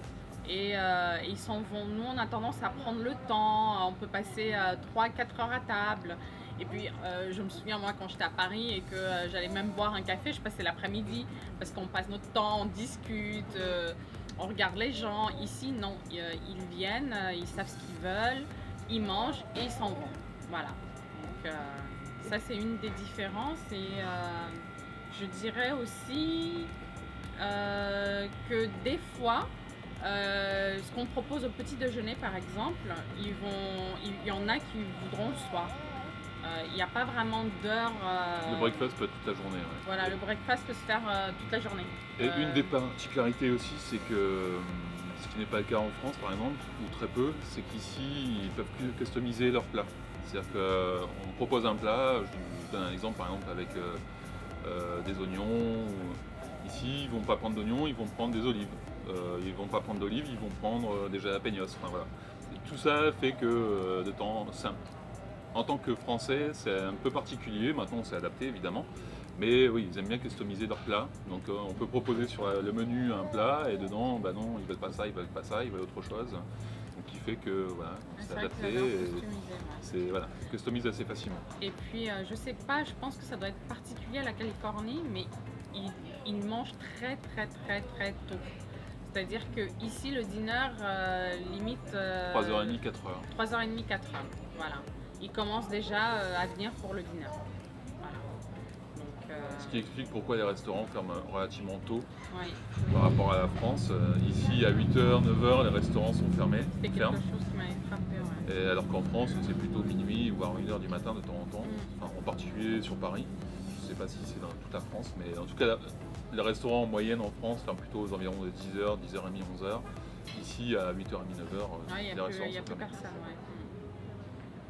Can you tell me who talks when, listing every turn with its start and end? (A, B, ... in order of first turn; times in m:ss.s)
0:00.4-0:26.7 A
0:27.4-0:35.8 A
0:36.4-0:38.9 A
0:38.4-0:40.2 B
0:39.8-0:42.7 A
0:42.2-0:54.0 B
0:54.6-1:04.8 B
1:05.5-1:16.4 B
1:16.9-1:19.2 B
1:18.2-1:19.9 A
1:19.8-1:21.4 B
1:21.6-1:37.4 A
1:32.3-1:33.3 B
1:38.0-1:38.2 A
1:38.9-1:39.8 A
1:39.6-1:42.1 B
1:42.3-1:42.9 A
1:42.9-1:47.2 B
1:46.8-1:48.5 A
1:48.4-2:02.9 B
1:51.6-1:51.9 A
2:01.9-2:03.7 A